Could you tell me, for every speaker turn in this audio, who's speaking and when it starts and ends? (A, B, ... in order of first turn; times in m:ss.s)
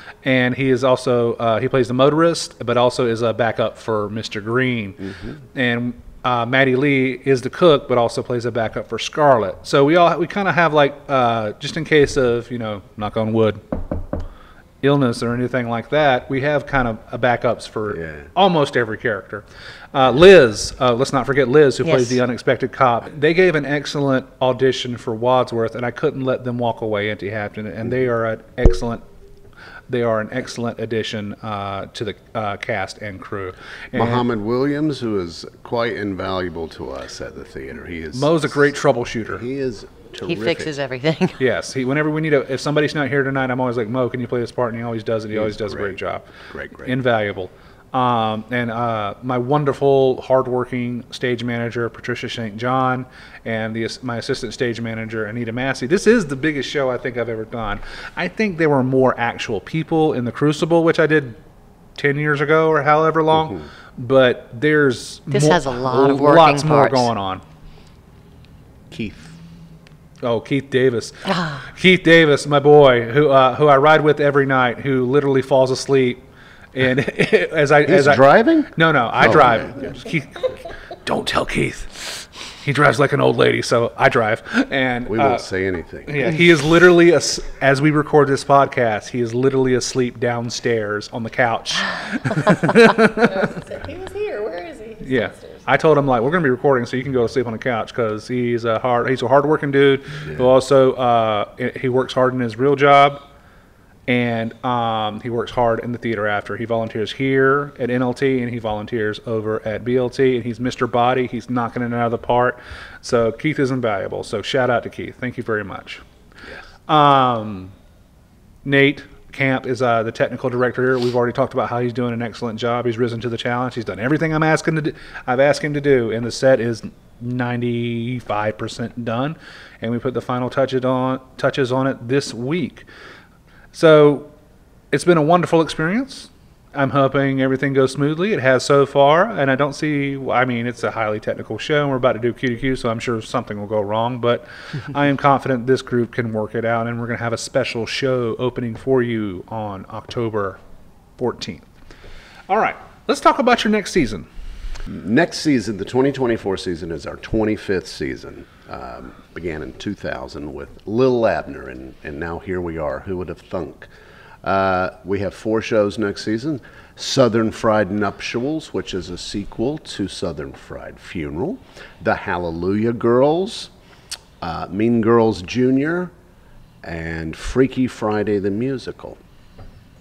0:00.2-0:13.6 A
0:05.0-0:05.4 B
0:14.8-0:29.0 A
0:17.9-0:18.3 B
0:21.8-0:22.2 C
0:29.9-0:34.2 A
0:33.9-0:38.6 B
0:38.1-0:39.4 A
0:39.3-0:40.7 B
0:40.3-0:41.4 C
0:41.4-0:46.3 A
0:45.3-0:47.0 B
0:46.8-1:01.4 A
1:02.0-1:07.4 A
1:03.4-1:03.6 B
1:05.3-1:07.1 C
1:08.9-1:09.4 B
1:10.2-1:16.2 A
1:11.2-1:11.7 C
1:16.7-1:25.4 A
1:17.8-1:19.9 B
1:25.1-1:26.4 B
1:26.1-1:33.5 A
1:33.2-1:35.7 D
1:35.0-1:43.2 A
1:40.2-1:40.5 B
1:44.1-1:56.0 A
1:56.9-1:57.7 A
1:58.6-2:12.9 A
2:13.7-2:14.3 A
2:14.9-2:30.6 A
2:31.2-2:31.7 A
2:32.5-2:34.3 A
2:34.9-2:43.9 B
2:44.4-2:53.7 B
2:54.4-2:56.1 B
2:56.8-2:59.2 B